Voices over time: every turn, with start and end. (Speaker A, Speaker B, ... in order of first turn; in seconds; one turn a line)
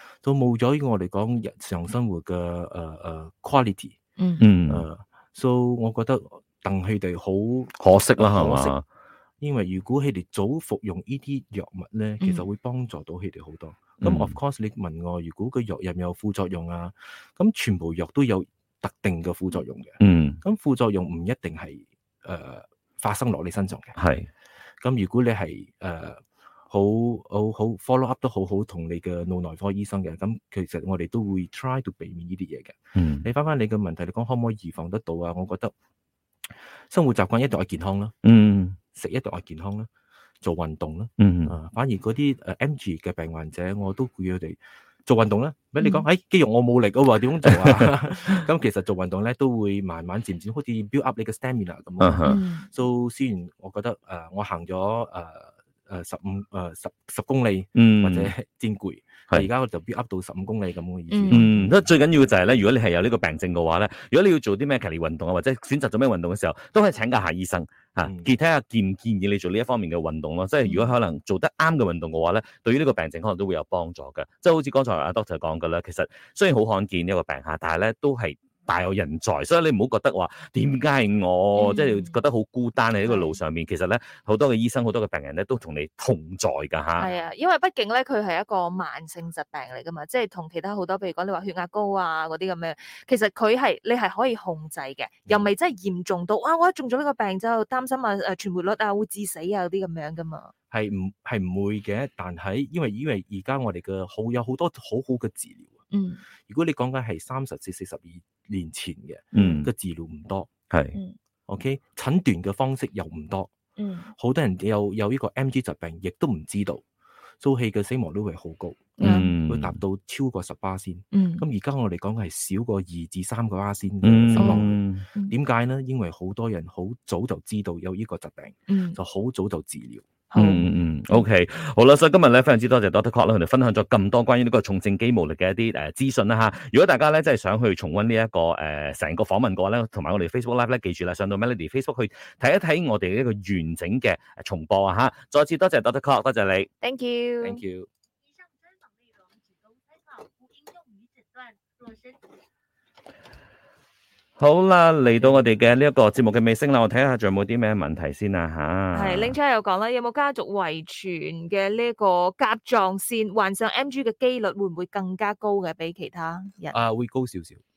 Speaker A: 0.2-4.0
Speaker B: 4.4-4.8
Speaker A: 4.7-8.7
Speaker B: 7.8-8.8
Speaker A: 9.4-23.9
Speaker B: 14.0-14.3
Speaker B: 20.0-20.4
Speaker B: 23.9-24.3
Speaker A: 24.8-35.7
Speaker B: 32.9-33.2
Speaker A: 36.9-38.1
Speaker B: 38.2-38.8
Speaker A: 38.9-39.9
Speaker A: 40.4-61.9
Speaker B: 41.2-41.5
Speaker C: 45.8-46.0
Speaker B: 47.5-47.9
Speaker B: 52.0-52.4
Speaker C: 52.2-52.7
Speaker B: 57.8-58.3
Speaker C: 61.1-61.6
Speaker B: 61.3-87.1
Speaker A: 68.0-68.3
Speaker C: 70.6-70.9
Speaker C: 81.5-82.2
Speaker C: 83.0-83.4
Speaker C: 87.0-100.5
Speaker A: 95.2-95.5
Speaker A: 100.7-105.8
Speaker C: 105.9-106.2
Speaker A: 106.5-110.5
Speaker B: 109.3-109.7
Speaker B: 110.7-111.0
Speaker A: 111.5-113.5
Speaker C: 113.8-114.1
Speaker A: 114.2-116.8
Speaker A: 117.4-124.8
Speaker C: 119.0-119.3
Speaker B: 119.0-119.8
Speaker C: 121.1-121.4
Speaker B: 124.0-125.0
Speaker C: 124.4-125.3
Speaker A: 125.3-130.1
Speaker C: 128.7-129.0
Speaker C: 130.3-131.3
Speaker B: 130.3-146.7
Speaker C: 146.8-147.6
Speaker A: 147.4-147.9
Speaker D: 148.2-152.3
Speaker B: 154.4-159.3
Speaker C: 158.9-166.8
Speaker A: 166.7-167.6